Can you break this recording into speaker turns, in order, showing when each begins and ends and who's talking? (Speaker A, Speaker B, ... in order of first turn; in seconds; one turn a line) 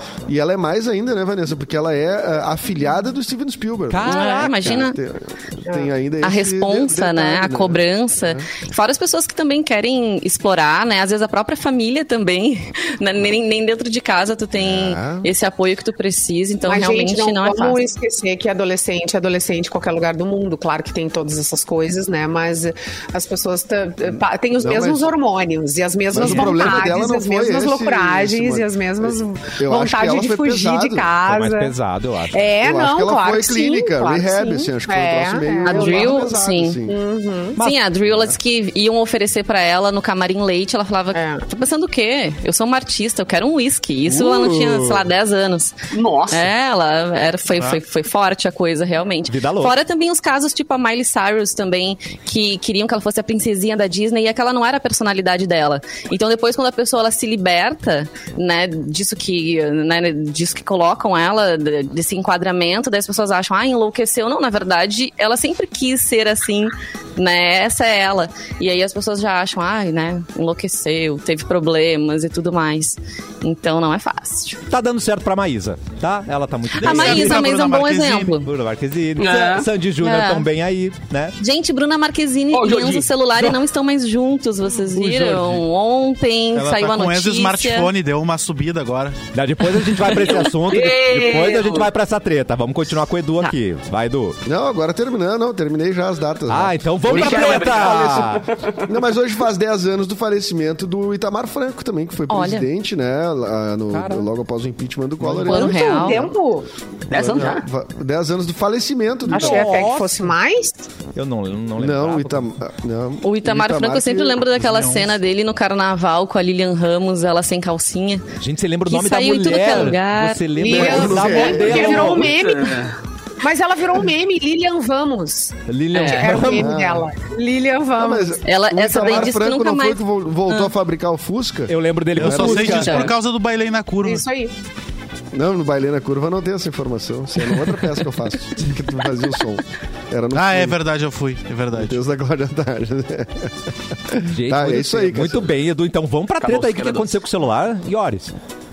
Speaker A: 0.3-8.5
Speaker B: 3.9-4.5
Speaker C: 4.0-5.0
Speaker C: 6.2-17.8
Speaker A: 14.6-15.3
Speaker D: 16.6-31.7
Speaker A: 24.6-25.1
Speaker A: 26.1-31.1
Speaker C: 26.2-26.5
Speaker B: 31.2-32.3
Speaker D: 32.3-36.3
Speaker A: 32.6-37.0
Speaker C: 35.6-36.8
Speaker D: 36.9-37.6
Speaker C: 37.6-45.7
Speaker D: 41.1-41.4
Speaker A: 44.1-45.0
Speaker E: 45.9-46.5
Speaker C: 46.3-74.6
Speaker B: 49.3-49.7
Speaker B: 74.7-77.5
Speaker F: 76.8-78.3
Speaker C: 76.8-78.5
Speaker B: 78.4-81.3
Speaker E: 79.2-79.7
Speaker C: 80.0-80.4
Speaker C: 81.4-87.9
Speaker E: 82.5-83.5
Speaker B: 84.9-85.6
Speaker B: 86.5-86.8
Speaker F: 86.7-89.2
Speaker B: 89.3-94.4
Speaker E: 90.0-91.9
Speaker A: 94.5-98.3
Speaker B: 96.5-98.5
Speaker E: 97.1-98.9
Speaker A: 98.8-106.3
Speaker C: 102.3-102.7
Speaker B: 103.9-104.3
Speaker B: 105.2-105.5
Speaker D: 105.4-106.7
Speaker C: 105.5-106.2
Speaker E: 107.1-107.6
Speaker A: 107.1-109.9
Speaker D: 109.3-110.9
Speaker B: 109.3-110.3
Speaker B: 111.1-112.5
Speaker A: 111.8-114.5
Speaker C: 113.2-118.2
Speaker F: 114.5-115.2
Speaker B: 118.4-122.3
Speaker C: 118.8-121.1
Speaker D: 120.6-122.8
Speaker A: 120.6-122.0
Speaker E: 121.6-123.0
Speaker D: 123.4-128.4
Speaker B: 125.7-126.8
Speaker C: 125.9-126.5
Speaker A: 126.5-127.1
Speaker A: 128.0-132.8
Speaker C: 128.4-130.7
Speaker D: 129.0-129.3
Speaker B: 131.7-133.1
Speaker F: 132.1-134.2
Speaker C: 132.6-133.1
Speaker D: 134.0-134.5
Speaker A: 135.3-140.8
Speaker F: 140.3-142.0
Speaker A: 141.8-145.5
Speaker B: 144.2-148.3
Speaker E: 146.4-147.1